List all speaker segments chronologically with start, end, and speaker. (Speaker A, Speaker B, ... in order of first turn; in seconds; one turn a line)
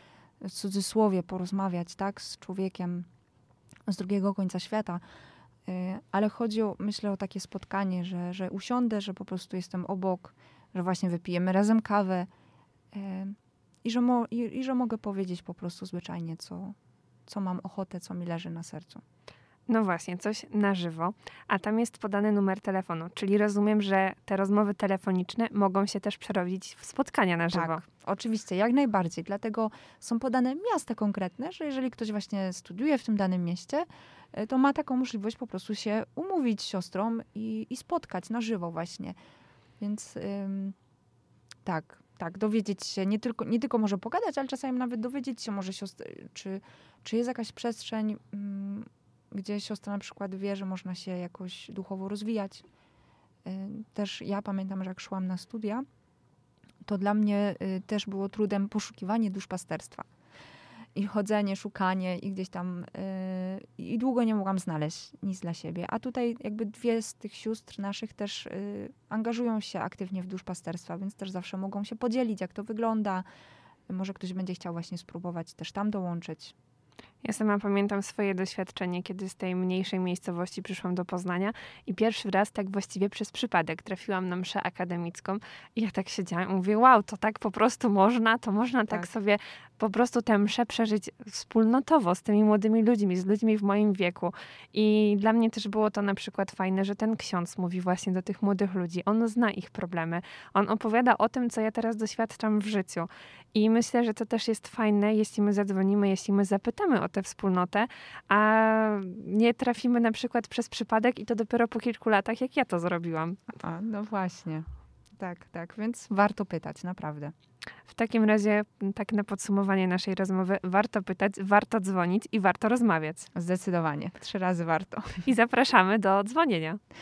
Speaker A: 0.4-3.1
Speaker A: 3.9-5.0
Speaker A: 5.7-12.3
Speaker A: 12.9-16.8
Speaker A: 17.3-19.0
Speaker B: 19.7-27.8
Speaker A: 27.5-39.2
Speaker A: 39.8-40.8
Speaker A: 41.6-52.6
Speaker A: 53.5-55.8
Speaker A: 56.9-60.1
Speaker A: 61.0-73.3
Speaker A: 73.9-76.5
Speaker B: 77.2-113.5
Speaker A: 113.6-117.3
Speaker B: 117.9-123.3
Speaker A: 123.3-125.2
Speaker B: 125.2-126.8